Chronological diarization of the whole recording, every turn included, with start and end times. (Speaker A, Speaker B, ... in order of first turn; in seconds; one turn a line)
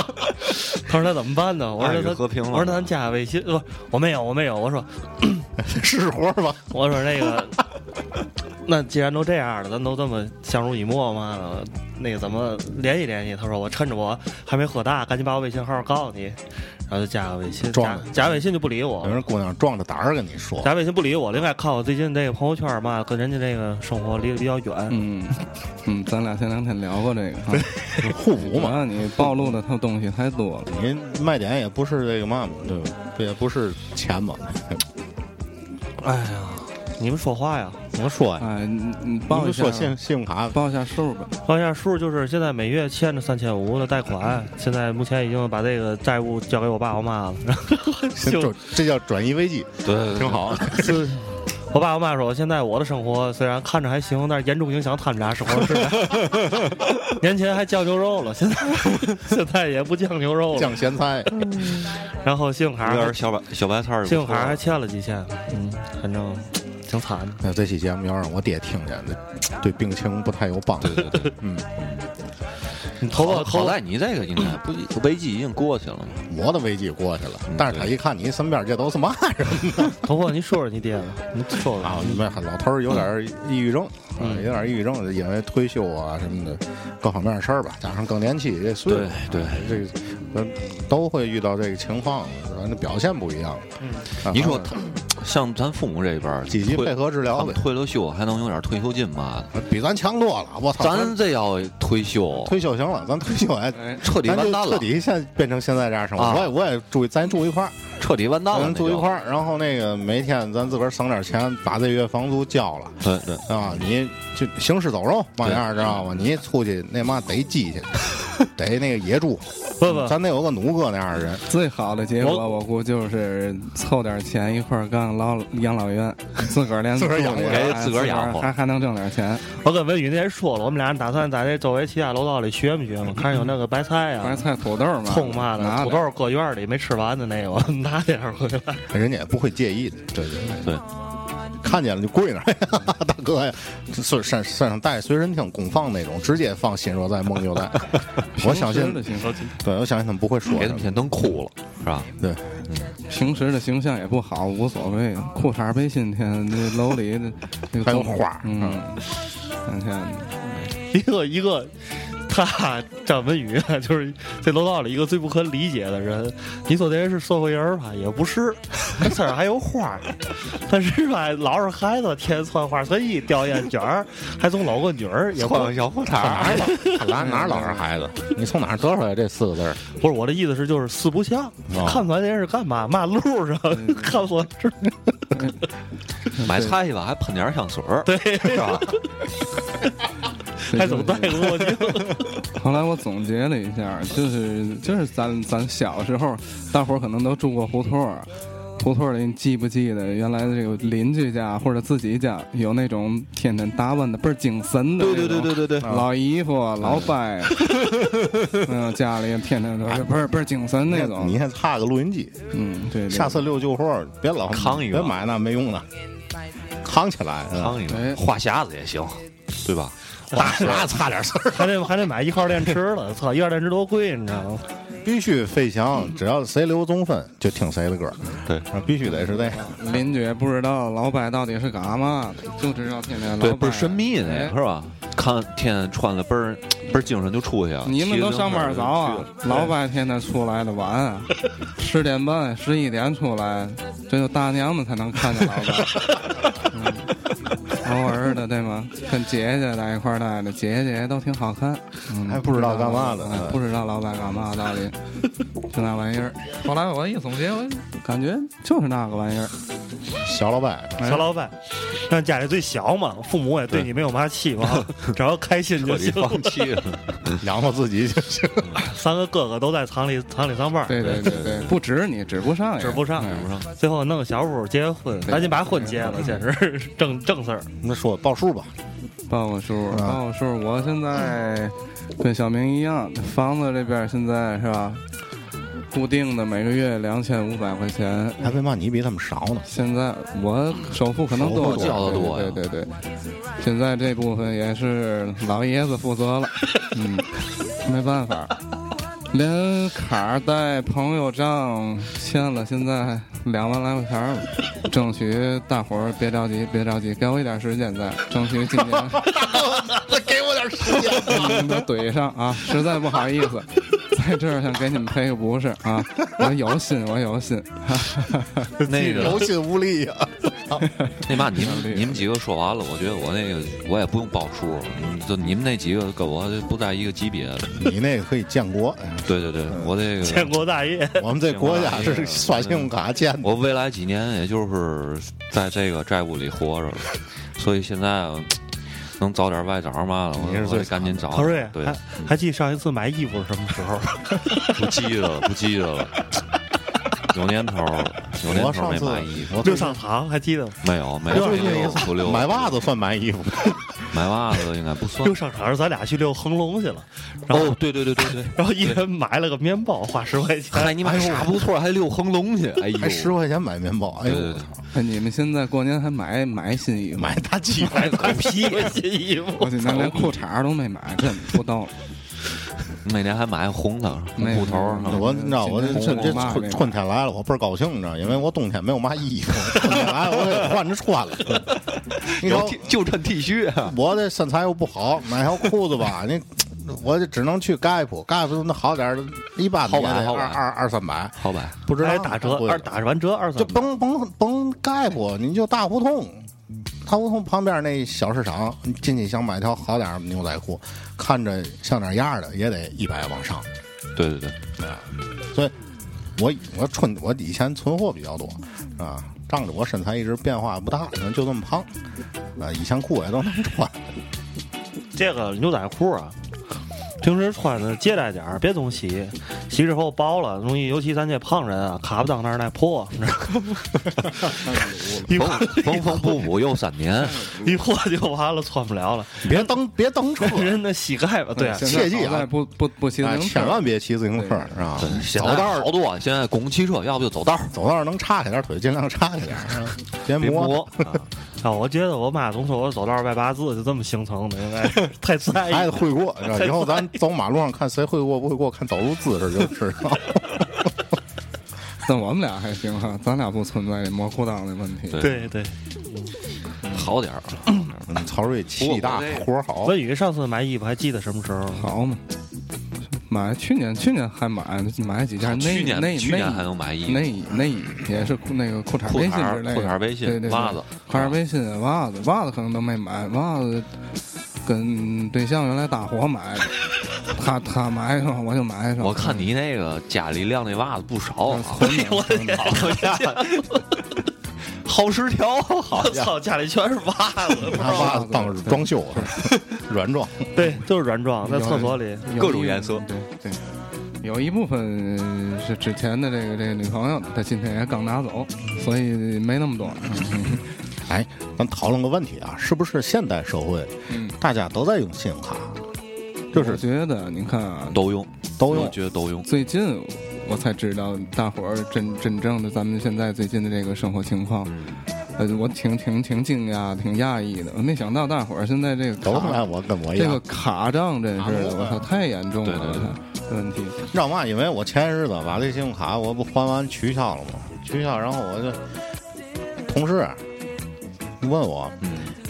Speaker A: 0.5-5.5
Speaker B: 1.8-2.9
Speaker C: 5.6-7.3
Speaker A: 6.7-7.6
Speaker A: 8.6-19.2
Speaker C: 17.6-18.4
Speaker C: 19.0-20.7
Speaker A: 20.6-25.0
Speaker D: 24.9-27.7
Speaker C: 28.0-28.9
Speaker D: 28.4-30.7
Speaker C: 30.7-34.8
Speaker A: 36.0-37.9
Speaker C: 37.9-38.5
Speaker D: 38.4-40.0
Speaker C: 39.3-40.6
Speaker D: 40.5-41.3
Speaker A: 41.4-48.5
Speaker C: 48.1-51.0
Speaker B: 49.8-50.8
Speaker A: 50.7-60.9
Speaker C: 60.5-61.4
Speaker A: 61.6-63.2
Speaker B: 62.8-64.6
Speaker A: 64.0-67.4
Speaker C: 67.4-71.6
Speaker B: 70.8-72.0
Speaker A: 73.0-73.8
Speaker B: 73.1-76.2
Speaker C: 76.3-80.1
Speaker B: 77.5-77.9
Speaker A: 80.0-82.2
Speaker C: 81.8-93.7
Speaker B: 88.9-89.8
Speaker A: 93.8-94.0
Speaker C: 94.2-94.7
Speaker B: 94.2-99.5
Speaker C: 96.5-97.6
Speaker C: 99.5-101.2
Speaker B: 100.8-102.5
Speaker C: 102.3-107.8
Speaker B: 104.0-104.9
Speaker B: 106.2-106.5
Speaker B: 108.0-109.1
Speaker C: 108.5-121.4
Speaker B: 113.0-113.5
Speaker A: 119.8-120.2
Speaker D: 121.5-129.4
Speaker A: 122.2-122.5
Speaker C: 126.9-127.8
Speaker B: 127.4-128.5
Speaker A: 129.5-134.4
Speaker D: 134.2-136.0
Speaker A: 135.0-138.8
Speaker C: 138.9-140.7
Speaker C: 141.6-151.0
Speaker D: 148.3-149.5
Speaker B: 150.5-152.1
Speaker C: 152.2-152.6
Speaker B: 152.7-152.9
Speaker D: 153.1-159.0
Speaker C: 157.8-158.8
Speaker D: 159.6-160.5
Speaker A: 160.9-175.8
Speaker B: 175.3-176.7
Speaker C: 176.2-179.8
Speaker A: 176.4-177.6
Speaker D: 177.2-177.7
Speaker A: 180.0-185.3
Speaker C: 181.7-182.1
Speaker D: 183.7-184.1
Speaker D: 186.3-186.8
Speaker B: 186.4-188.9
Speaker A: 188.1-189.0
Speaker D: 190.7-191.5
Speaker A: 190.7-192.2
Speaker D: 192.5-207.7
Speaker B: 205.0-206.0
Speaker C: 205.8-206.1
Speaker B: 206.8-207.2
Speaker D: 208.5-211.4
Speaker C: 209.8-210.1
Speaker C: 210.8-212.4
Speaker D: 212.5-213.5
Speaker C: 213.1-215.9
Speaker B: 214.5-215.2
Speaker C: 216.8-217.8
Speaker B: 217.5-219.9
Speaker D: 217.9-218.2
Speaker A: 220.3-220.9
Speaker C: 220.3-221.8
Speaker A: 221.5-224.6
Speaker C: 225.0-229.8
Speaker D: 229.2-234.5
Speaker B: 233.4-239.7
Speaker D: 237.8-246.0
Speaker D: 246.7-247.1
Speaker D: 247.7-254.9
Speaker C: 252.2-253.6
Speaker D: 255.7-259.5
Speaker C: 260.2-261.1
Speaker D: 261.0-261.2
Speaker A: 261.0-266.8
Speaker B: 264.7-265.1
Speaker B: 265.8-267.4
Speaker C: 267.4-268.8
Speaker A: 268.8-271.2
Speaker D: 270.9-273.4
Speaker B: 271.0-271.7
Speaker A: 272.8-277.7
Speaker B: 273.1-273.7
Speaker D: 275.3-276.4
Speaker C: 277.8-278.7
Speaker D: 279.3-285.0
Speaker C: 279.9-280.2
Speaker D: 285.9-288.6
Speaker C: 288.4-289.7
Speaker D: 289.7-292.9
Speaker C: 291.3-292.2
Speaker B: 291.5-292.6
Speaker D: 293.6-297.3
Speaker D: 297.8-298.6
Speaker D: 299.3-309.3
Speaker C: 309.1-311.8
Speaker D: 311.2-319.2
Speaker B: 318.8-319.5
Speaker C: 318.9-320.9
Speaker D: 320.9-322.2
Speaker B: 321.2-327.8
Speaker C: 327.7-329.9
Speaker B: 329.2-330.5
Speaker A: 330.2-331.3
Speaker C: 331.2-333.5
Speaker B: 331.5-332.9
Speaker B: 333.4-338.6
Speaker B: 339.2-342.3
Speaker C: 340.3-341.3
Speaker A: 341.3-344.7
Speaker B: 344.7-346.1
Speaker B: 347.3-349.6
Speaker C: 348.4-350.0
Speaker A: 349.6-350.8
Speaker B: 350.8-352.8
Speaker C: 351.3-353.9
Speaker A: 351.3-352.0
Speaker B: 354.1-355.3
Speaker A: 355.2-361.0
Speaker B: 357.5-359.0
Speaker B: 360.7-363.3
Speaker C: 361.0-361.6
Speaker C: 363.0-364.8
Speaker B: 364.2-364.7
Speaker D: 364.9-367.4
Speaker C: 367.1-368.9
Speaker A: 367.8-370.2
Speaker D: 369.6-371.9
Speaker B: 373.0-375.3
Speaker D: 374.4-376.9
Speaker C: 375.0-381.7
Speaker B: 375.9-376.5
Speaker B: 381.5-383.9
Speaker C: 382.4-382.9
Speaker C: 383.8-392.9
Speaker B: 389.8-390.6
Speaker B: 391.4-391.7
Speaker A: 391.9-393.8
Speaker C: 393.6-396.5
Speaker C: 397.0-403.7
Speaker B: 404.1-404.6
Speaker C: 404.8-405.7
Speaker C: 406.4-411.9
Speaker C: 412.6-414.0
Speaker A: 415.1-416.3
Speaker A: 417.2-424.5
Speaker D: 424.6-425.3
Speaker A: 425.3-426.5
Speaker B: 425.3-427.5
Speaker D: 427.3-427.7
Speaker A: 427.5-429.7
Speaker C: 429.4-430.8
Speaker A: 430.4-432.1
Speaker D: 431.6-434.7
Speaker C: 431.8-432.5
Speaker C: 433.2-435.9
Speaker B: 435.0-437.7
Speaker C: 437.7-441.1
Speaker B: 440.3-441.2
Speaker A: 441.6-447.1
Speaker C: 445.6-450.9
Speaker D: 452.0-455.3
Speaker B: 455.1-455.5
Speaker A: 455.2-456.3
Speaker C: 456.8-457.1
Speaker B: 456.9-457.8
Speaker C: 458.0-459.9
Speaker B: 458.8-459.5
Speaker A: 459.8-461.9
Speaker D: 461.8-462.2
Speaker D: 463.1-473.9
Speaker B: 465.4-467.3
Speaker B: 469.0-471.4
Speaker D: 474.6-479.5
Speaker B: 479.0-481.9
Speaker D: 481.5-482.7
Speaker A: 481.8-484.0
Speaker B: 482.6-483.8
Speaker B: 484.8-486.3
Speaker A: 485.9-488.2
Speaker C: 487.7-490.5
Speaker D: 487.8-489.3
Speaker A: 490.5-492.3
Speaker D: 491.4-493.6
Speaker B: 492.3-493.1
Speaker D: 494.2-500.6
Speaker C: 501.1-505.8
Speaker D: 504.1-504.4
Speaker C: 506.5-506.8
Speaker D: 506.5-508.0
Speaker B: 507.9-509.5
Speaker C: 508.6-509.0
Speaker D: 509.4-514.7
Speaker B: 514.6-515.0
Speaker D: 515.4-524.0
Speaker C: 519.2-520.4
Speaker C: 521.4-522.0
Speaker B: 522.6-523.2
Speaker C: 524.1-528.9
Speaker C: 529.8-530.4
Speaker C: 531.4-532.0
Speaker B: 532.0-532.3